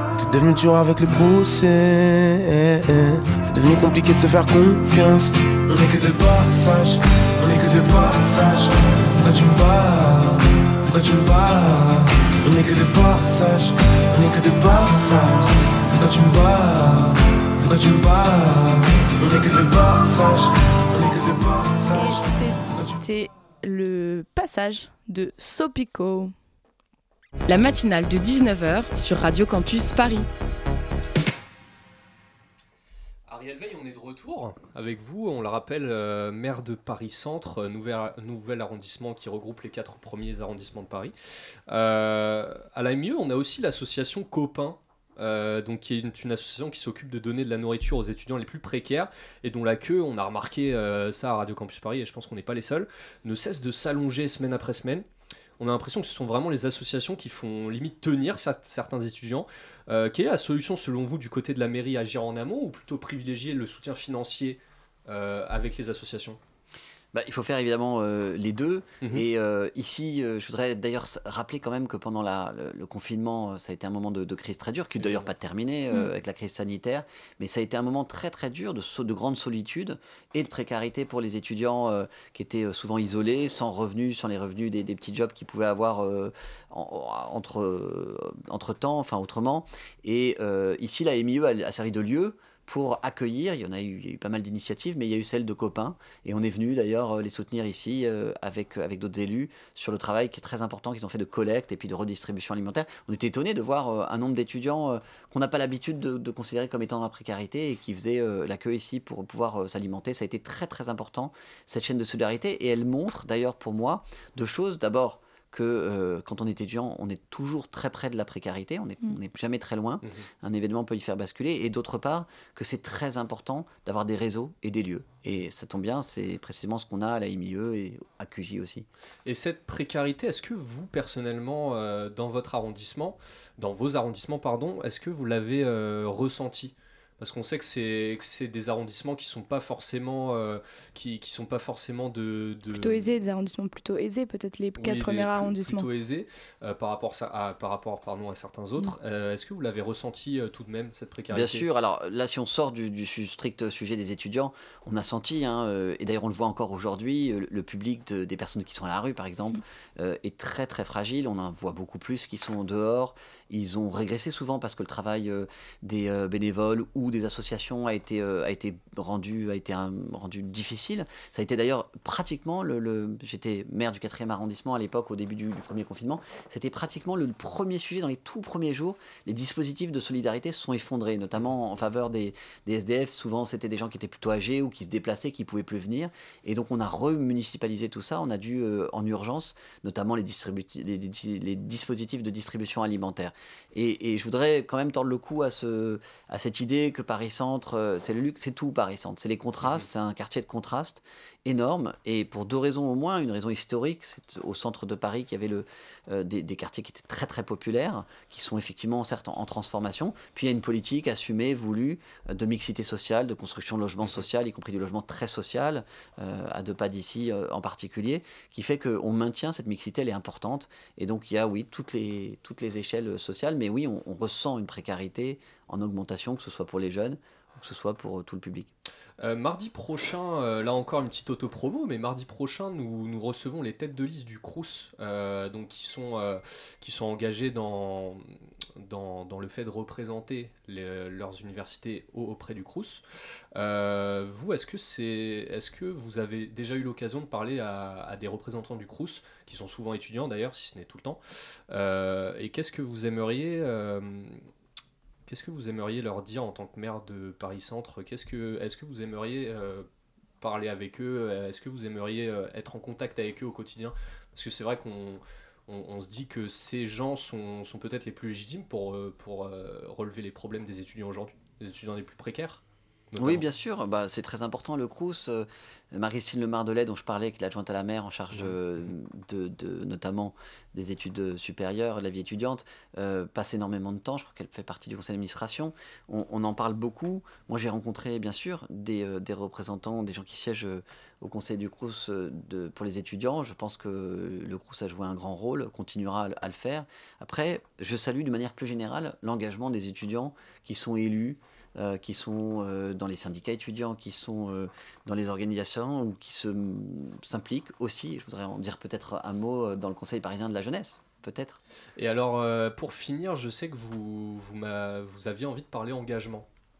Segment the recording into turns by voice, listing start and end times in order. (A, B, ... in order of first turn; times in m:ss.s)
0:00.1-0:23.0 A
0:22.0-0:26.3 B
0:27.5-0:30.3 C
0:33.3-0:41.1 D
0:41.7-0:55.0 D
0:55.6-1:06.4 D
1:07.1-2:08.9 E
1:09.0-1:09.3 D
1:15.0-1:15.3 D
2:09.2-2:23.1 D
2:22.7-2:25.9 B
2:24.8-2:31.7 D
2:31.3-3:48.7 E
3:49.2-3:58.2 D
3:58.8-4:03.0 D
4:03.5-4:14.4 D
4:15.3-4:19.9 D
4:20.4-4:32.6 D
4:33.1-4:33.4 D
4:33.2-5:11.6 E
5:12.0-5:16.5 D